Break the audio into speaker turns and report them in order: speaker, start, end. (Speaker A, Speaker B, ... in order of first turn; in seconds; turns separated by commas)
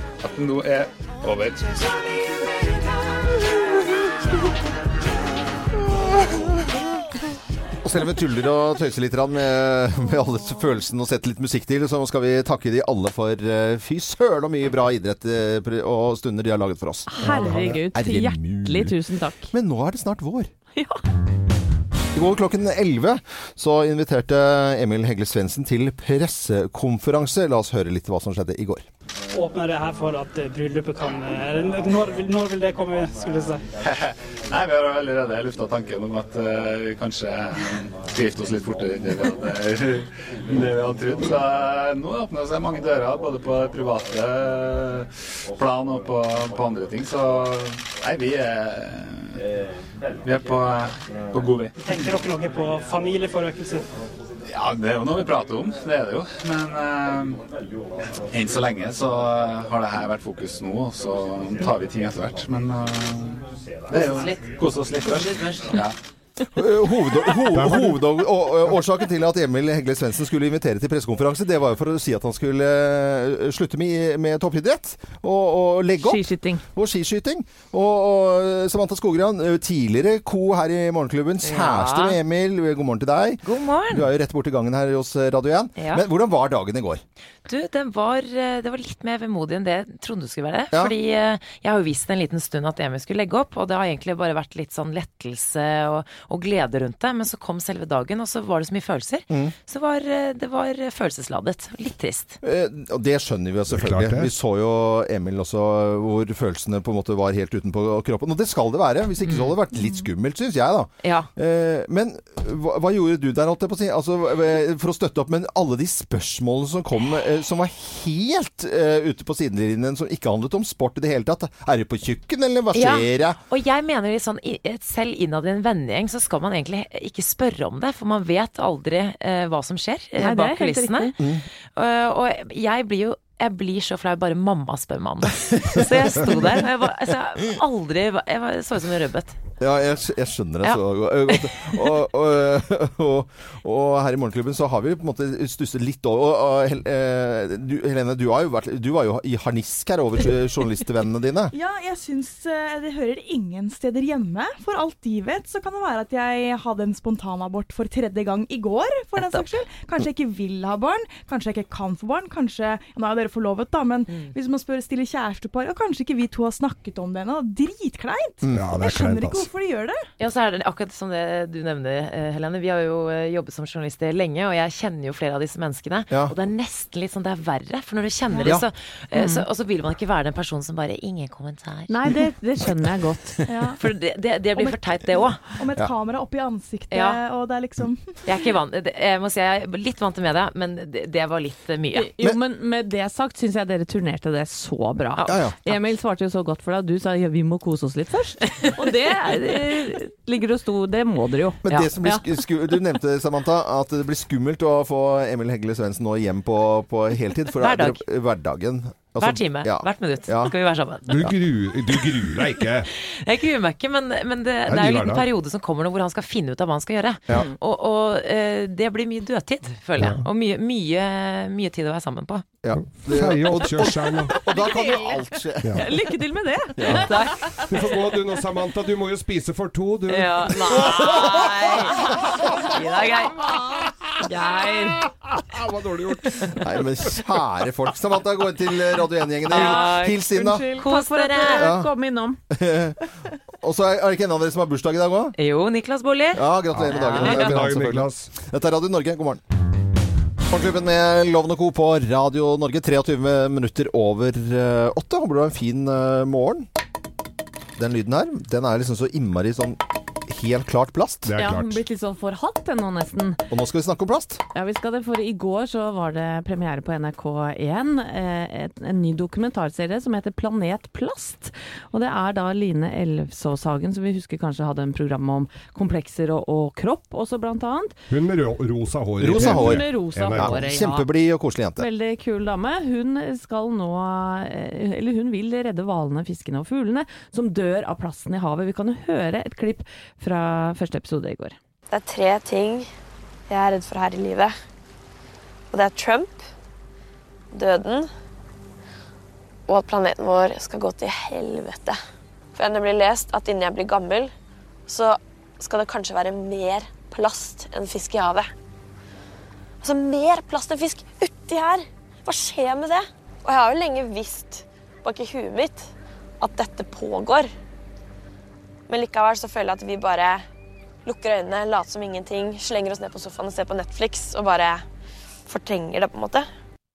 Speaker A: 0.2-1.8, Speaker B: 7.8-17.1, Speaker C: 17.1-19.5, Speaker D: 17.2-17.8, Speaker B: 17.9-18.9, Speaker B: 19.5-20.5, Speaker C: 20.7-21.0, Speaker B: 22.1-28.9, Speaker E: 29.3-33.6, Speaker A: 33.8-49.4, Speaker A: 50.2-51.7, Speaker E: 51.8-53.8, Speaker A: 54.5-57.4, Speaker A: 58.3-65.9, Speaker B: 66.5-87.0, Speaker D: 67.5-68.0, Speaker C: 76.0-76.6, Speaker F: 81.4-82.2, Speaker F: 83.4-84.1, Speaker F: 85.8-86.0, Speaker F: 87.5-102.4, Speaker B: 102.4-123.4, Speaker D: 103.7-104.3, Speaker F: 109.2-109.5, Speaker F: 111.0-111.3, Speaker F: 122.7-131.1, Speaker C: 130.2-131.2, Speaker F: 131.8-139.3, Speaker B: 135.7-136.3, Speaker B: 139.6-151.5, Speaker F: 140.6-141.9, Speaker G: 151.5-170.0, Speaker F: 159.2-159.4, Speaker B: 168.4-168.7, Speaker D: 168.5-169.5, Speaker F: 170.2-182.0, Speaker C: 179.1-179.4, Speaker C: 181.9-183.4, Speaker G: 183.4-183.8, Speaker F: 183.8-185.4, Speaker G: 184.5-188.2, Speaker F: 186.9-187.2, Speaker F: 188.2-192.1, Speaker C: 191.9-202.3, Speaker F: 195.1-195.8, Speaker B: 195.2-195.6, Speaker B: 201.6-210.5, Speaker F: 207.5-208.0, Speaker F: 209.2-211.1, Speaker D: 211.1-212.9, Speaker F: 212.8-222.5, Speaker D: 214.7-215.3, Speaker D: 220.0-220.2, Speaker B: 222.6-225.9, Speaker D: 222.7-224.4, Speaker C: 224.4-224.8, Speaker D: 225.6-225.9, Speaker C: 225.8-227.9, Speaker B: 226.8-227.1, Speaker D: 227.7-232.8, Speaker F: 230.1-232.2, Speaker C: 230.5-233.3, Speaker F: 232.7-233.4, Speaker C: 234.2-235.0, Speaker D: 235.0-236.8, Speaker B: 236.4-240.8, Speaker F: 239.4-240.2, Speaker C: 239.4-242.4, Speaker F: 240.8-241.7, Speaker B: 241.5-241.9, Speaker B: 242.5-245.3, Speaker F: 245.3-247.5, Speaker B: 246.3-249.4, Speaker D: 246.7-248.3, Speaker B: 250.5-256.6, Speaker B: 257.8-261.3, Speaker D: 261.2-261.8, Speaker C: 261.4-263.4, Speaker B: 263.5-264.4, Speaker C: 264.5-278.0, Speaker D: 278.1-280.6, Speaker B: 279.2-281.9, Speaker C: 279.3-281.1, Speaker C: 281.8-291.6, Speaker H: 291.9-292.9, Speaker H: 293.5-294.5, Speaker H: 295.7-296.4, Speaker H: 297.5-298.1, Speaker H: 299.7-302.0, Speaker H: 302.5-304.3, Speaker H: 304.9-308.5, Speaker H: 309.8-315.9, Speaker H: 316.4-317.5, Speaker H: 318.9-320.4, Speaker H: 321.0-324.8, Speaker H: 325.5-326.4